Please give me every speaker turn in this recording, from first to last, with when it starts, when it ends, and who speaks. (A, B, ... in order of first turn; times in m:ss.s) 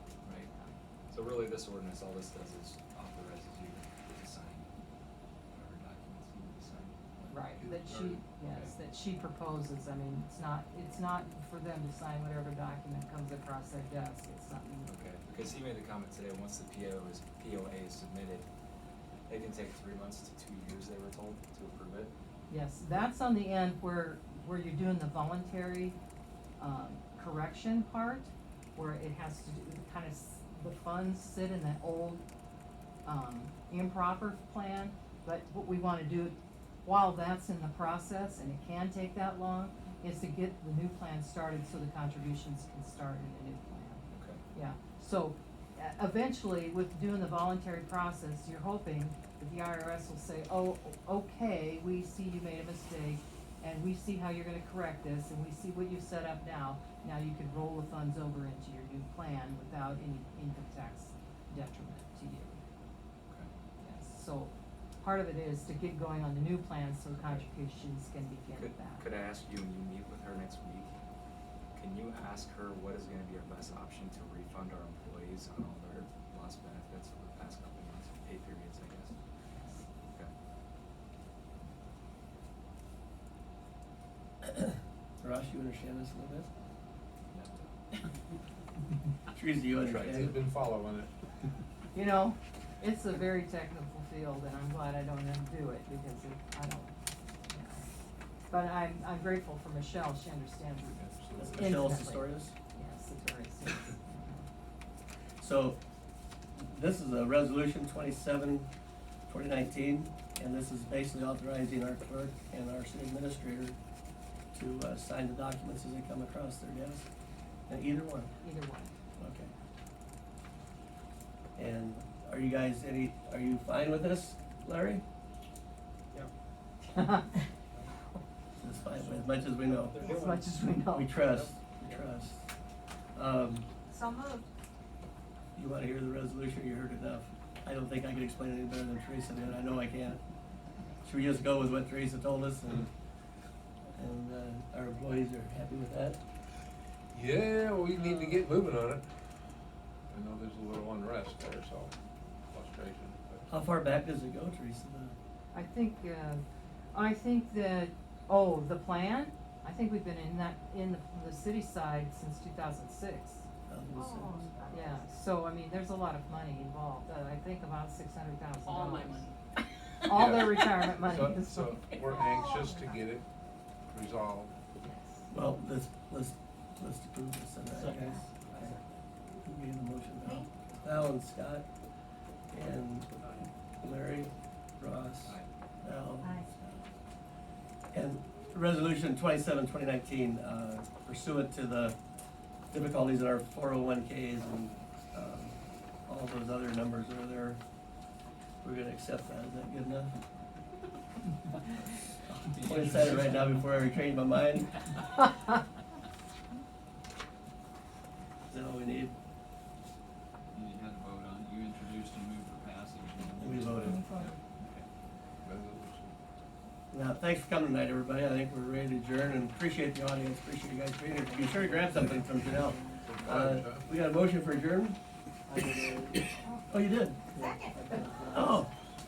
0:00.2-0:00.5 A
0:01.1-0:04.7 A
0:05.5-0:07.4 A
0:07.3-0:14.9 B
0:07.6-0:08.2 C
0:14.8-0:18.5 A
0:19.3-0:22.1 A
0:22.5-0:26.0 B
0:26.6-0:32.2 B
0:33.0-1:02.6 B
0:44.1-0:44.4 A
1:03.8-1:09.0 B
1:07.1-1:07.4 A
1:08.5-1:10.9 A
1:11.7-1:19.2 A
1:19.5-1:19.8 B
1:24.4-1:26.5 D
1:27.3-1:27.7 A
1:29.3-1:30.3 D
1:29.8-1:31.1 C
1:31.9-1:36.9 B
1:37.5-1:37.8 B
1:38.5-1:44.4 B
1:40.9-1:41.8 C
1:41.4-1:42.5 D
1:45.4-1:45.8 D
1:46.5-1:48.7 D
1:49.3-1:53.8 D
1:54.5-1:57.1 D
1:57.7-1:58.3 D
1:58.4-1:58.9 B
1:59.2-1:59.5 D
2:01.6-2:05.0 D
2:06.9-2:07.4 B
2:08.6-2:10.1 D
2:10.0-2:11.2 B
2:10.8-2:12.5 D
2:13.1-2:13.6 D
2:13.9-2:14.4 E
2:15.5-2:20.2 D
2:21.0-2:22.9 D
2:24.0-2:26.2 D
2:27.1-2:29.0 C
2:27.9-2:28.4 D
2:30.1-2:31.9 C
2:32.5-2:33.5 C
2:33.5-2:35.2 D
2:35.5-2:36.4 B
2:36.9-2:43.4 B
2:43.7-2:45.0 D
2:43.9-2:45.0 E
2:44.7-2:49.3 B
2:48.6-2:49.4 F
2:50.0-2:52.2 B
2:50.1-2:53.2 C
2:52.1-2:53.0 E
2:53.9-2:54.5 C
2:54.8-2:55.2 B
2:55.3-2:58.8 D
2:57.8-2:58.1 G
2:59.4-3:01.6 D
3:00.2-3:00.5 E
3:02.5-3:06.9 D
3:06.2-3:06.5 E
3:07.9-3:12.0 D
3:12.7-3:17.6 D
3:18.6-3:20.2 D
3:22.3-3:24.9 D
3:22.6-3:23.6 G
3:28.5-3:29.1 D
3:30.5-3:34.8 G
3:33.4-3:34.0 D
3:33.9-3:34.4 E
3:35.4-3:36.1 C
3:36.9-3:45.0 D
3:43.0-3:43.9 C
3:45.5-3:46.2 F
3:45.7-3:46.2 G
3:46.7-3:47.2 D
3:47.3-3:48.5 F
3:47.4-3:48.5 G
3:47.4-3:47.9 E
3:48.3-3:48.7 D